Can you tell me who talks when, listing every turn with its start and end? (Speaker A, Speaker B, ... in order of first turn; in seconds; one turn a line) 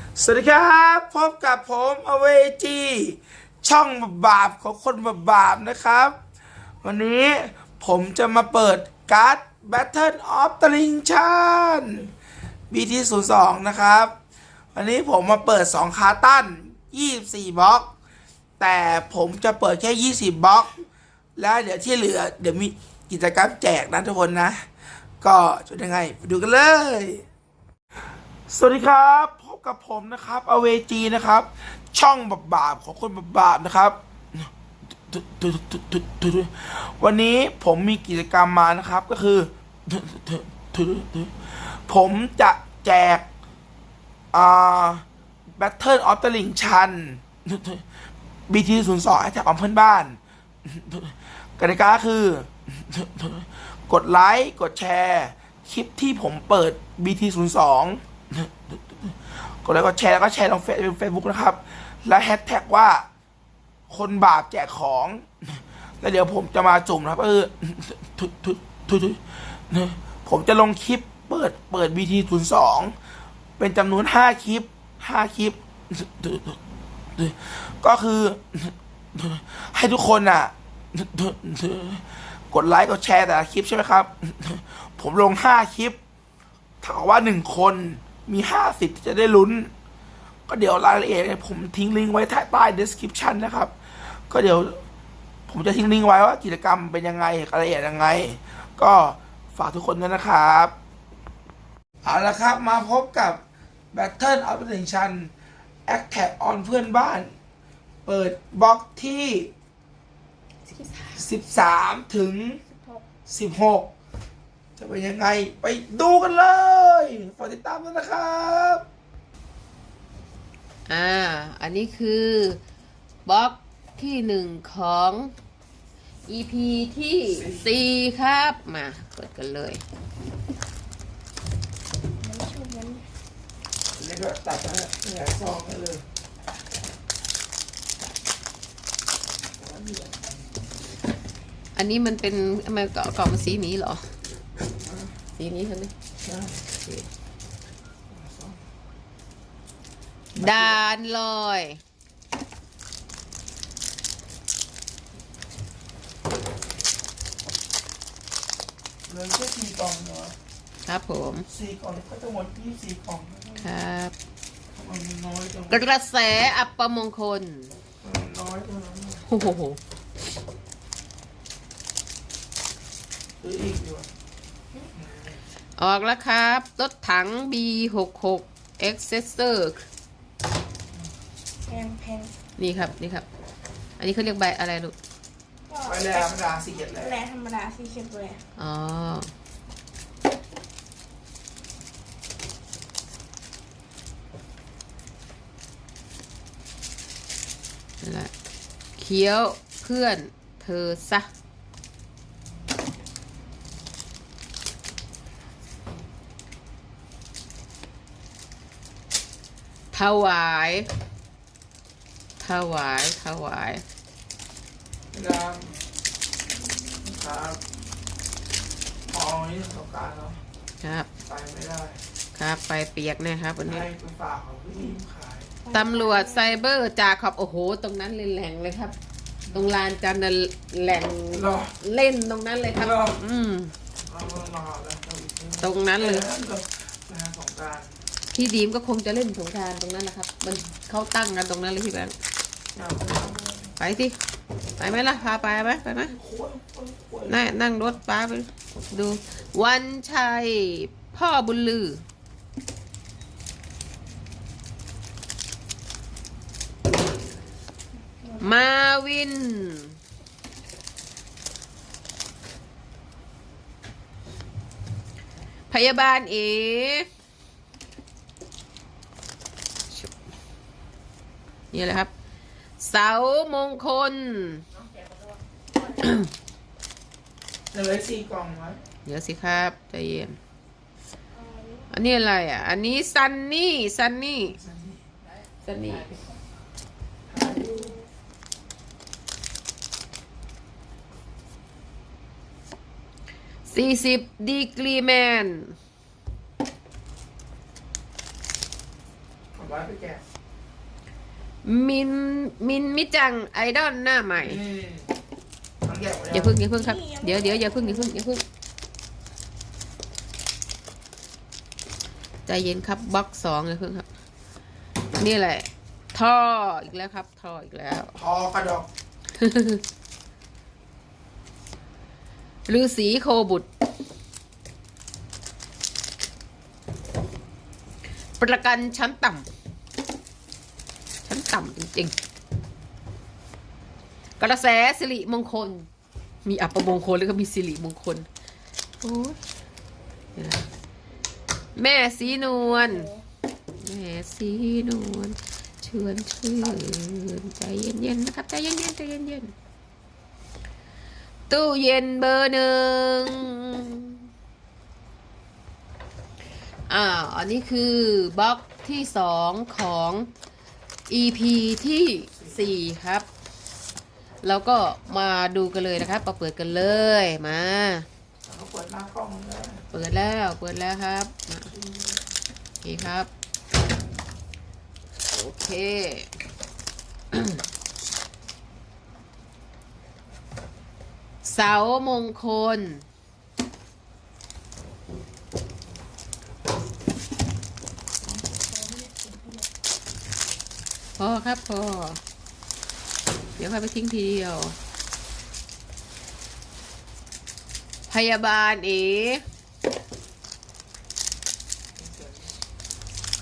Speaker A: 0.1-6.2
Speaker A: 6.8-12.1
Speaker A: 12.7-14.1
Speaker A: 14.7-17.9
Speaker A: 18.6-20.7
Speaker A: 21.4-24.6
Speaker A: 25.2-27.2
Speaker A: 28.5-34.5
Speaker A: 35.0-43.3
Speaker A: 44.3-45.0
Speaker A: 45.6-47.9
Speaker A: 48.5-63.1
Speaker A: 63.9-73.0
Speaker A: 73.6-76.6
Speaker A: 77.2-86.0
Speaker A: 86.8-89.7
Speaker A: 90.5-94.8
Speaker A: 95.5-100.7
Speaker A: 102.0-103.4
Speaker A: 103.9-105.3
Speaker A: 105.9-107.3
Speaker A: 108.1-109.5
Speaker B: 110.7-111.2
Speaker A: 111.2-112.6
Speaker C: 112.7-113.1
Speaker A: 113.3-113.9
Speaker A: 114.8-118.8
Speaker B: 120.9-122.6
Speaker B: 123.3-125.3
Speaker B: 126.3-129.8
Speaker A: 127.3-127.8
Speaker C: 132.2-133.0
Speaker A: 133.9-136.0
Speaker A: 139.6-140.5
Speaker B: 141.8-144.0
Speaker A: 144.8-145.2
Speaker B: 145.4-145.9
Speaker A: 146.2-146.6
Speaker B: 146.7-147.1
Speaker A: 148.1-148.6
Speaker A: 150.3-150.8
Speaker B: 150.4-151.8
Speaker A: 159.1-160.3
Speaker B: 160.8-161.5
Speaker A: 161.5-163.7
Speaker B: 163.6-164.2
Speaker A: 164.7-165.8
Speaker B: 165.7-167.7
Speaker A: 168.0-169.2
Speaker B: 169.3-169.8
Speaker A: 173.4-174.1
Speaker A: 174.8-175.4
Speaker B: 175.8-179.8
Speaker C: 181.7-182.3
Speaker B: 182.6-183.3
Speaker B: 184.0-185.0
Speaker C: 185.7-188.4
Speaker A: 185.8-187.2
Speaker B: 188.6-189.3
Speaker B: 198.0-198.3
Speaker B: 199.0-201.3
Speaker B: 209.9-210.9
Speaker B: 212.4-213.8
Speaker A: 215.1-215.7
Speaker A: 217.0-217.6
Speaker A: 219.1-220.4
Speaker B: 220.8-221.1
Speaker A: 221.2-222.0
Speaker B: 222.3-223.9
Speaker A: 223.6-225.6
Speaker C: 225.6-226.6
Speaker B: 225.7-228.9
Speaker A: 229.5-229.7
Speaker B: 229.5-233.7
Speaker A: 231.3-231.7
Speaker A: 232.7-233.2
Speaker A: 234.1-238.0
Speaker B: 235.6-236.3
Speaker B: 238.3-242.2
Speaker A: 242.8-243.8
Speaker B: 243.8-244.2
Speaker B: 244.8-246.1
Speaker A: 245.8-248.0
Speaker B: 247.3-252.0
Speaker B: 258.4-259.9
Speaker B: 265.7-267.1
Speaker B: 271.7-272.1
Speaker B: 272.8-274.6
Speaker B: 275.9-276.3
Speaker A: 277.7-278.8
Speaker B: 279.1-280.4
Speaker C: 281.3-281.9
Speaker B: 281.9-284.6
Speaker A: 284.5-285.1
Speaker B: 285.6-286.2
Speaker A: 287.3-288.0
Speaker C: 287.5-288.1
Speaker B: 293.7-295.8
Speaker A: 299.5-300.2
Speaker B: 301.6-304.6
Speaker A: 304.4-305.1
Speaker A: 305.8-306.6
Speaker B: 306.3-308.4
Speaker C: 306.6-308.2
Speaker B: 312.5-314.1
Speaker B: 315.2-318.2
Speaker A: 318.2-318.9
Speaker B: 319.4-319.8
Speaker B: 322.7-323.7
Speaker B: 328.4-329.5
Speaker B: 331.2-332.1
Speaker B: 334.4-335.9
Speaker B: 336.4-338.3
Speaker B: 339.0-339.4
Speaker B: 340.4-340.7
Speaker B: 341.8-343.1
Speaker C: 342.3-343.2
Speaker B: 343.8-349.5
Speaker A: 346.6-346.9
Speaker B: 351.5-354.2
Speaker B: 356.9-360.3
Speaker B: 361.1-363.3
Speaker A: 362.4-362.7
Speaker B: 364.4-368.1
Speaker A: 368.4-369.8
Speaker B: 369.9-371.7
Speaker A: 371.7-372.3
Speaker B: 372.8-373.3
Speaker B: 375.3-376.3
Speaker B: 377.3-377.6
Speaker B: 381.4-383.0
Speaker C: 388.4-389.7
Speaker B: 391.2-392.2
Speaker B: 393.6-394.8
Speaker B: 398.1-399.4
Speaker A: 402.0-402.6